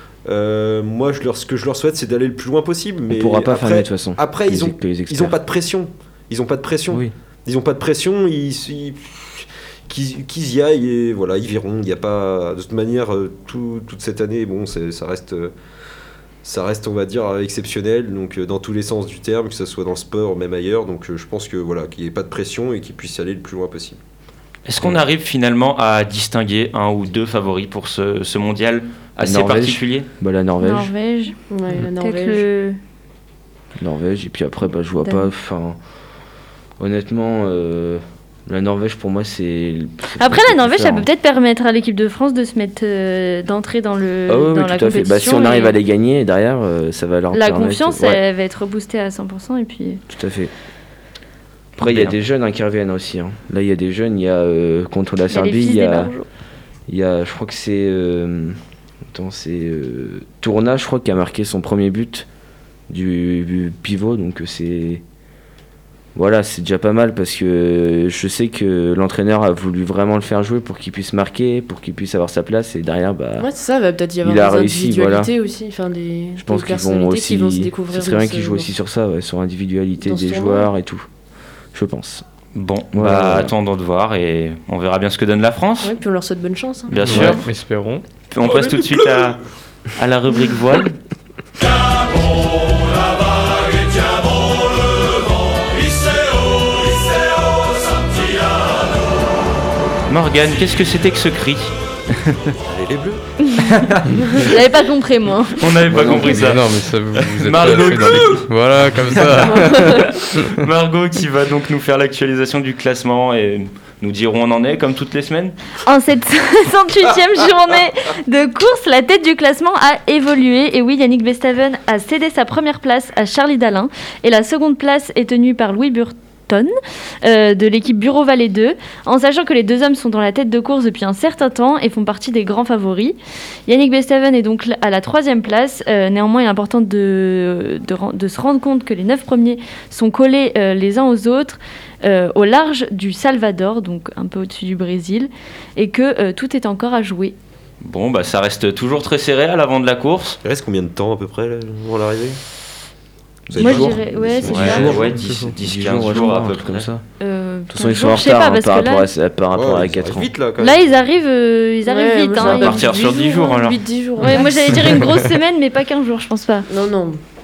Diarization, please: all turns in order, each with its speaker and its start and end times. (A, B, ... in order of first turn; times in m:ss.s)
0:00.2-0:15.5 A
0:03.1-0:05.3 B
0:16.4-0:24.0 A
0:24.6-0:30.1 C
0:29.2-0:30.9 B
0:30.6-0:32.8 D
0:31.5-0:32.4 E
0:33.8-0:35.8 B
0:35.0-0:35.3 D
0:36.8-0:41.1 B
0:40.2-0:45.7 D
0:44.3-0:48.2 B
0:47.3-0:50.0 D
0:50.1-0:50.5 B
0:51.8-0:56.1 B
0:51.8-0:52.1 C
0:55.3-0:56.2 D
0:56.9-1:02.3 B
1:02.9-1:05.0 B
1:06.1-1:13.5 B
1:13.4-1:18.7 E
1:14.2-1:15.3 B
1:16.4-1:21.0 B
1:20.0-1:20.7 E
1:21.7-1:22.2 B
1:22.5-1:25.9 C
1:22.9-1:23.5 B
1:25.8-1:27.3 E
1:26.9-1:27.4 C
1:27.0-1:28.0 F
1:28.3-1:29.4 C
1:28.4-1:28.9 A
1:29.9-1:31.0 C
1:40.1-1:42.5 C
1:42.6-1:43.2 A
1:43.7-1:44.4 C
1:44.4-1:45.6 D
1:45.6-1:55.5 C
1:45.9-1:46.5 B
1:46.2-1:50.6 F
1:47.7-1:48.4 A
1:49.5-1:49.9 E
1:55.8-2:27.3 D
2:27.8-2:30.4 C
2:30.4-2:32.4 A
2:33.5-2:35.2 A
2:33.5-2:35.0 D
2:33.6-2:33.9 B
2:34.4-2:36.9 C
2:34.6-2:37.0 B
2:35.2-2:35.6 F
2:37.2-2:39.1 D
2:37.7-2:40.3 B
2:39.5-2:40.9 A
2:40.6-2:42.8 D
2:41.8-2:44.7 E
2:42.4-2:43.8 C
2:44.2-2:46.7 D
2:46.7-2:47.2 E